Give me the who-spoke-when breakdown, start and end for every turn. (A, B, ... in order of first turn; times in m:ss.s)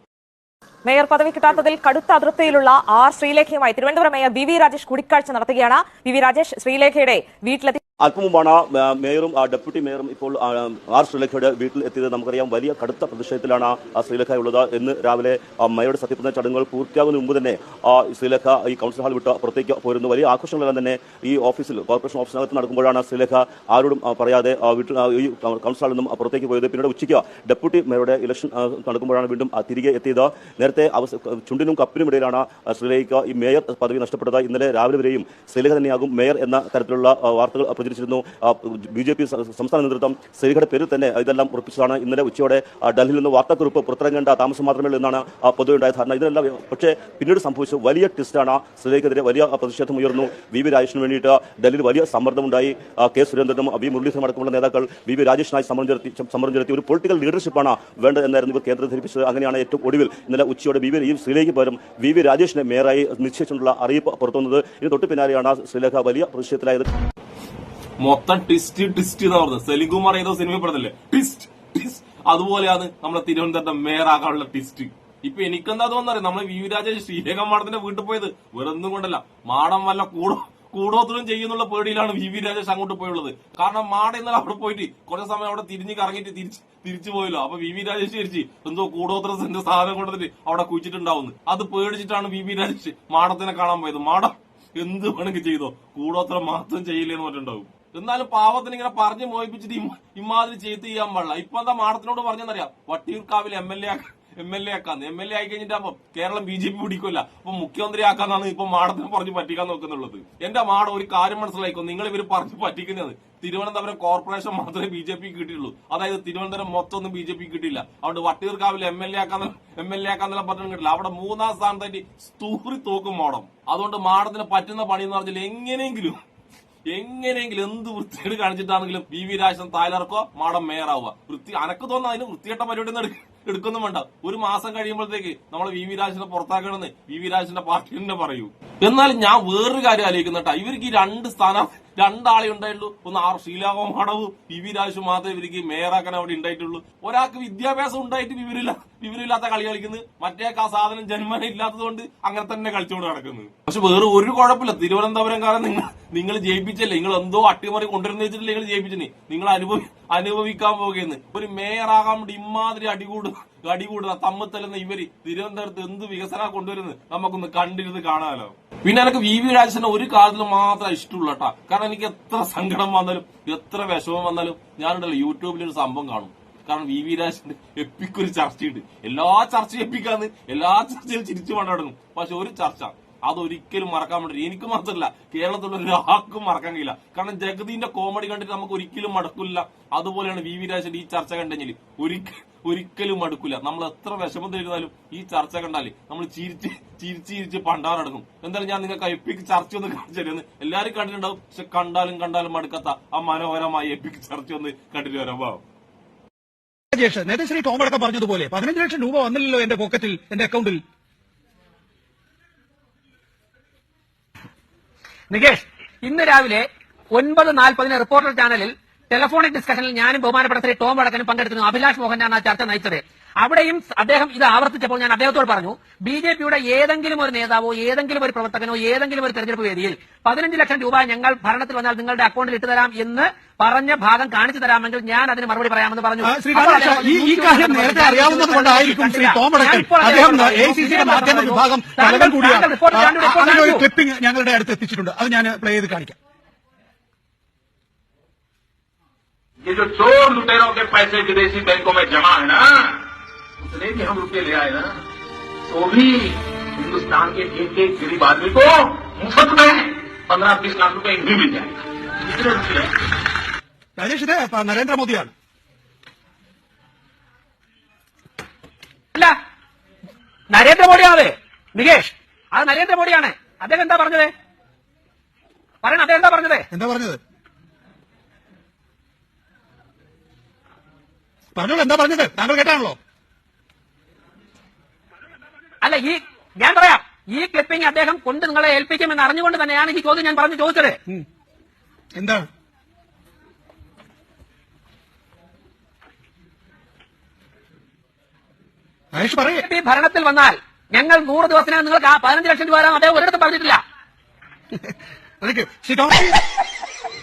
0:00.8-0:07.8 A
0:08.0-1:06.9 B
1:08.0-2:06.2 C
2:06.9-3:25.6 C
3:26.9-3:30.8 D
3:35.3-4:03.8 E
3:56.2-4:06.1 D
4:09.6-4:13.0 F
4:13.6-4:14.9 F
4:15.7-4:22.9 F
4:24.0-4:25.3 D
4:30.5-4:34.3 E
4:35.8-4:36.6 E
4:36.7-4:37.2 D
4:41.6-4:43.0 D
4:45.8-4:51.0 E
4:52.1-4:52.5 D
4:59.1-4:59.6 D
4:59.3-5:03.8 E
5:04.7-5:06.4 D